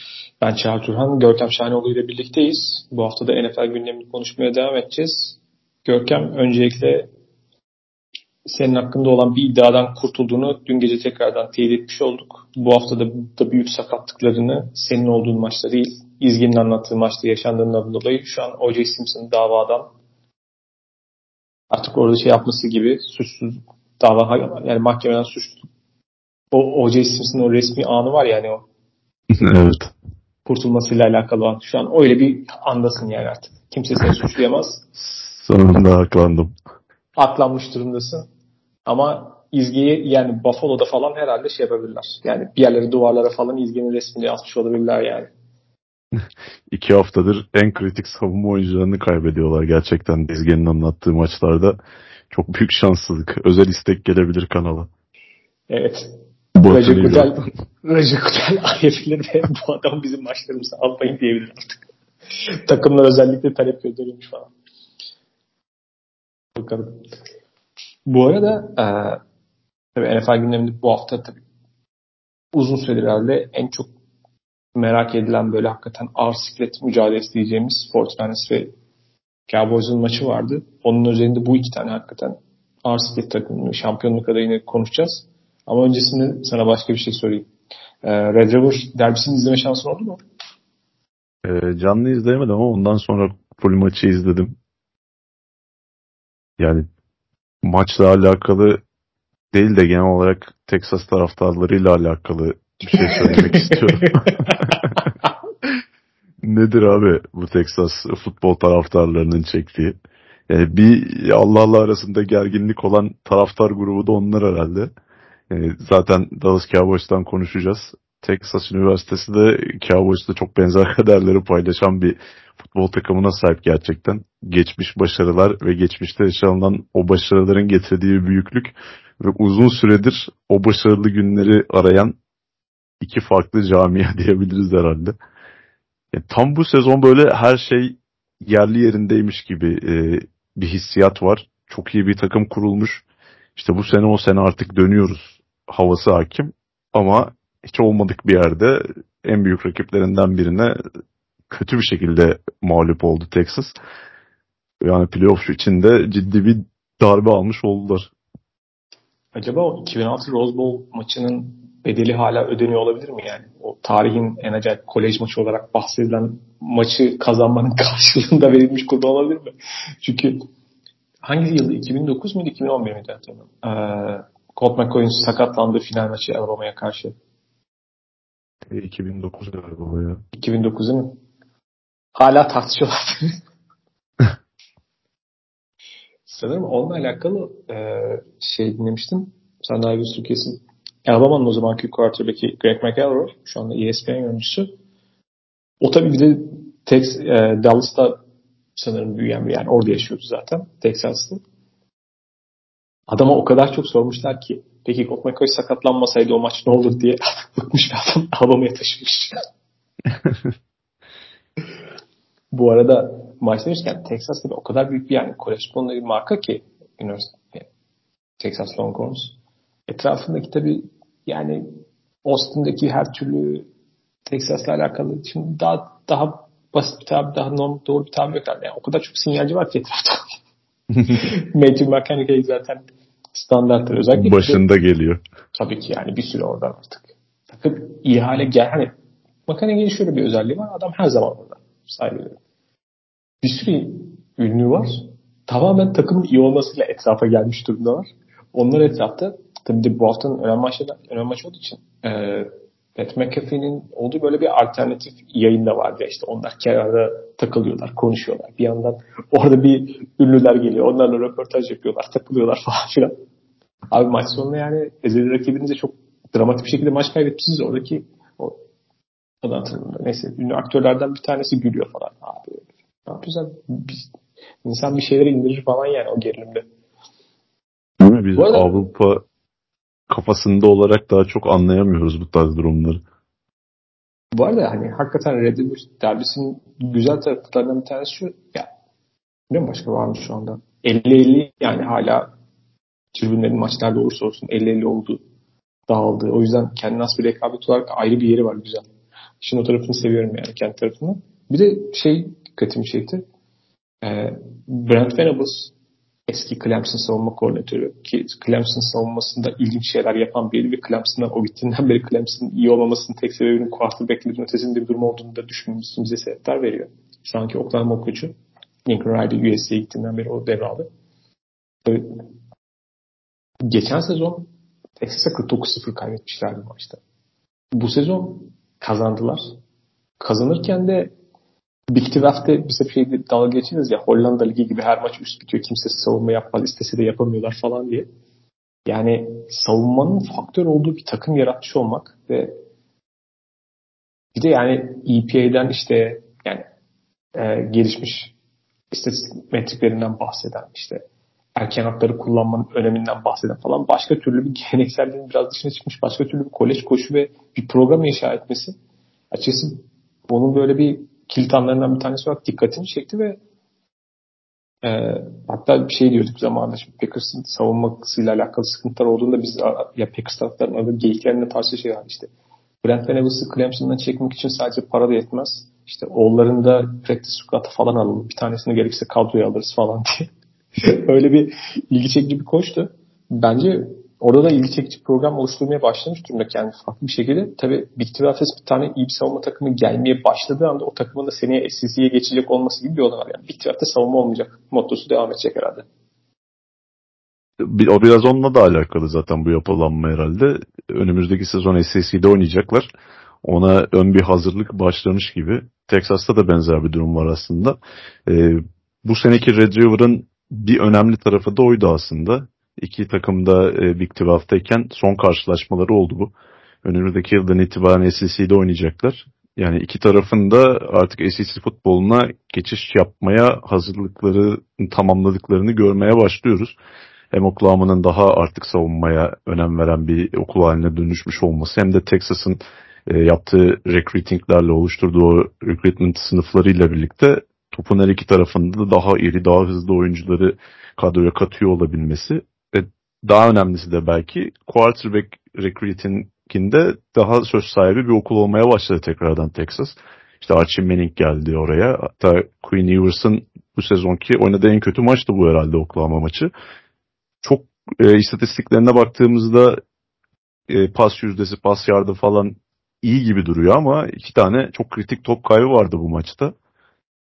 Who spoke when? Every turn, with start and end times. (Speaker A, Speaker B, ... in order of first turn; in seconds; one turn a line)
Speaker A: 0.4-7.1
Speaker A: 8.5-19.9
Speaker A: 21.7-25.7
Speaker A: 26.5-28.6
Speaker B: 29.3-29.9
Speaker A: 30.5-34.8
Speaker B: 35.0-36.5
Speaker A: 37.2-38.3
Speaker A: 38.9-45.3
Speaker B: 46.7-51.8
Speaker B: 52.3-54.9
Speaker A: 55.7-61.8
Speaker B: 56.6-57.4
Speaker A: 62.4-64.5
Speaker A: 66.5-67.0
Speaker A: 68.1-69.2
Speaker A: 70.0-71.4
Speaker A: 72.5-73.9
Speaker A: 74.8-78.7
Speaker A: 79.5-87.5
Speaker A: 88.0-90.2
Speaker B: 91.4-94.5
Speaker B: 96.6-96.9
Speaker B: 97.6-98.8
Speaker B: 99.5-105.1
Speaker A: 103.0-104.6
Speaker B: 106.4-110.0
Speaker B: 110.5-114.9
Speaker B: 115.5-132.2
Speaker B: 133.0-135.2
Speaker B: 136.1-143.0
Speaker B: 143.6-150.8
Speaker B: 151.5-153.7
Speaker B: 154.8-158.1
Speaker A: 159.3-170.4
Speaker A: 171.2-177.1
Speaker B: 178.7-180.2
Speaker A: 180.3-181.2
Speaker A: 182.2-183.3
Speaker A: 186.3-194.7
Speaker A: 195.8-198.2
Speaker A: 198.8-201.4
Speaker A: 203.1-209.4
Speaker A: 212.5-217.7
Speaker A: 218.4-219.3
Speaker A: 219.9-223.7
Speaker A: 224.3-230.2
Speaker A: 231.1-234.6
Speaker B: 234.1-235.2
Speaker A: 235.5-238.9
Speaker A: 239.5-242.4
Speaker A: 243.4-263.1
Speaker A: 263.9-268.6
Speaker A: 269.4-274.1
Speaker A: 274.6-276.6
Speaker B: 278.0-279.2
Speaker A: 278.4-278.8
Speaker B: 280.1-283.0
Speaker A: 284.4-288.7
Speaker A: 289.5-292.3
Speaker A: 293.1-295.2
Speaker A: 295.9-298.9
Speaker A: 299.4-303.2
Speaker A: 304.0-305.7
Speaker A: 306.3-318.4
Speaker A: 318.9-320.9
Speaker A: 321.9-322.1
Speaker A: 323.7-324.5
Speaker A: 325.0-327.0
Speaker A: 327.7-329.5
Speaker A: 330.2-331.1
Speaker A: 331.9-338.1
Speaker A: 338.9-342.5
Speaker A: 344.3-346.6
Speaker A: 347.4-348.3
Speaker A: 348.9-351.0
Speaker A: 351.6-358.7
Speaker A: 359.3-363.4
Speaker A: 364.8-372.3
Speaker A: 372.8-380.3
Speaker A: 380.8-395.9
Speaker B: 397.6-402.9
Speaker B: 403.4-416.3
Speaker B: 416.8-426.8
Speaker B: 427.3-456.5
Speaker B: 457.4-459.8
Speaker B: 460.7-466.5